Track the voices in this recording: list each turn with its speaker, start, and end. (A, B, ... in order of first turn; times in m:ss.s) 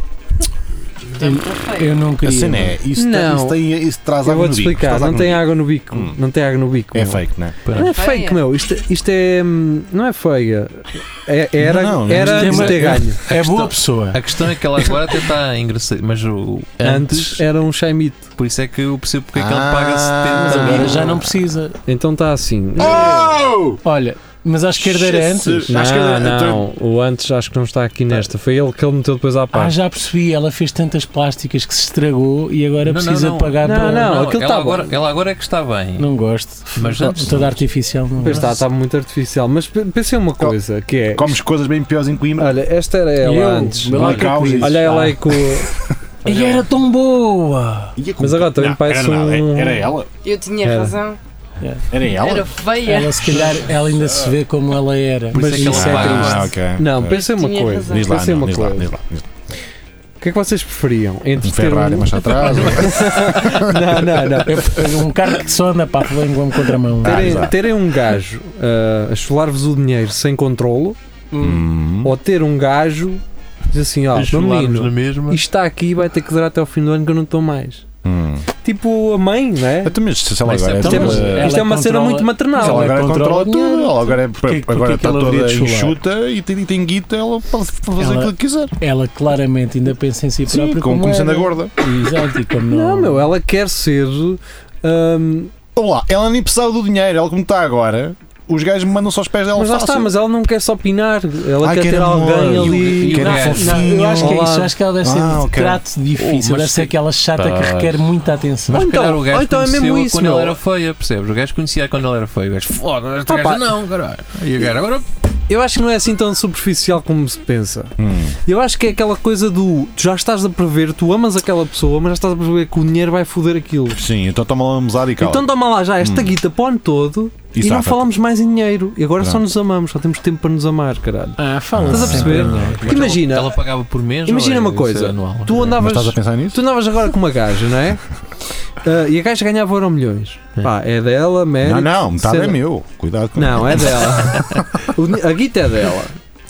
0:01.1-0:02.1 A
0:01.2-0:02.7 B
0:02.2-0:06.2 C
0:02.9-0:03.6 D
0:04.2-0:13.2 D
0:06.9-0:07.6 C
0:07.6-0:07.9 E
0:07.8-0:08.4 A
0:11.6-0:13.0 C
0:12.3-0:14.2 B
0:13.3-0:17.4 E
0:16.8-0:18.3 D
0:18.3-0:21.2 E
0:19.3-0:21.2 C
0:20.4-0:21.8 B
0:21.8-0:23.2 D
0:22.8-0:23.8 C
0:23.8-0:25.7 B
0:24.8-0:26.6 C
0:25.7-0:29.8 D
0:29.5-0:34.1 B
0:32.8-0:36.1 E
0:33.6-0:34.9 D
0:36.0-0:38.5 B
0:36.7-0:37.6 E
0:38.2-0:38.6 E
0:38.2-0:41.4 D
0:41.1-0:42.6 C
0:42.4-0:45.7 D
0:43.2-0:45.2 B
0:43.9-0:45.9 C
0:46.2-0:46.7 E
0:46.2-0:47.9 B
0:48.0-0:50.1 C
0:48.2-0:49.9 D
0:50.2-0:51.2 A
0:50.6-0:51.0 D
0:51.6-0:51.9 B
0:51.9-0:52.5 C
0:52.1-0:53.4 A
0:52.8-0:55.5 B
0:55.3-0:56.5 E
0:55.3-0:58.9 D
0:55.6-0:57.2 C
0:57.1-0:58.1 A
0:57.9-0:59.2 C
1:00.2-1:04.7 D
1:01.4-1:04.4 C
1:04.4-1:07.4 B
1:07.0-1:07.5 C
1:07.0-1:11.0 D
1:11.3-1:11.6 B
1:11.4-1:12.2 C
1:12.0-1:17.8 D
1:14.1-1:15.4 E
1:18.0-1:18.5 C
1:18.6-1:20.0 D
1:19.8-1:21.6 C
1:20.4-1:21.1 E
1:20.8-1:26.0 B
1:20.8-1:23.0 D
1:22.6-1:28.7 C
1:28.0-1:33.3 B
1:30.4-1:31.7 C
1:32.7-1:35.5 D
1:35.7-1:40.1 C
1:39.5-1:44.7 D
1:41.6-1:44.4 C
1:42.5-1:43.9 E
1:42.9-1:48.8 B
1:45.0-1:45.8 C
1:46.1-1:48.0 E
1:48.7-1:50.6 D
1:48.7-1:55.0 E
1:53.2-1:53.6 D
1:55.5-2:04.0 D
1:58.0-1:58.4 C
2:04.0-2:06.4 C
2:05.2-2:13.6 D
2:07.5-2:08.1 C
2:09.2-2:09.4 C
2:11.4-2:12.8 B
2:11.7-2:13.2 C
2:12.3-2:15.7 E
2:14.2-2:18.0 D
2:15.6-2:16.6 C
2:18.8-2:22.6 D
2:21.6-2:24.3 C
2:23.3-2:26.1 D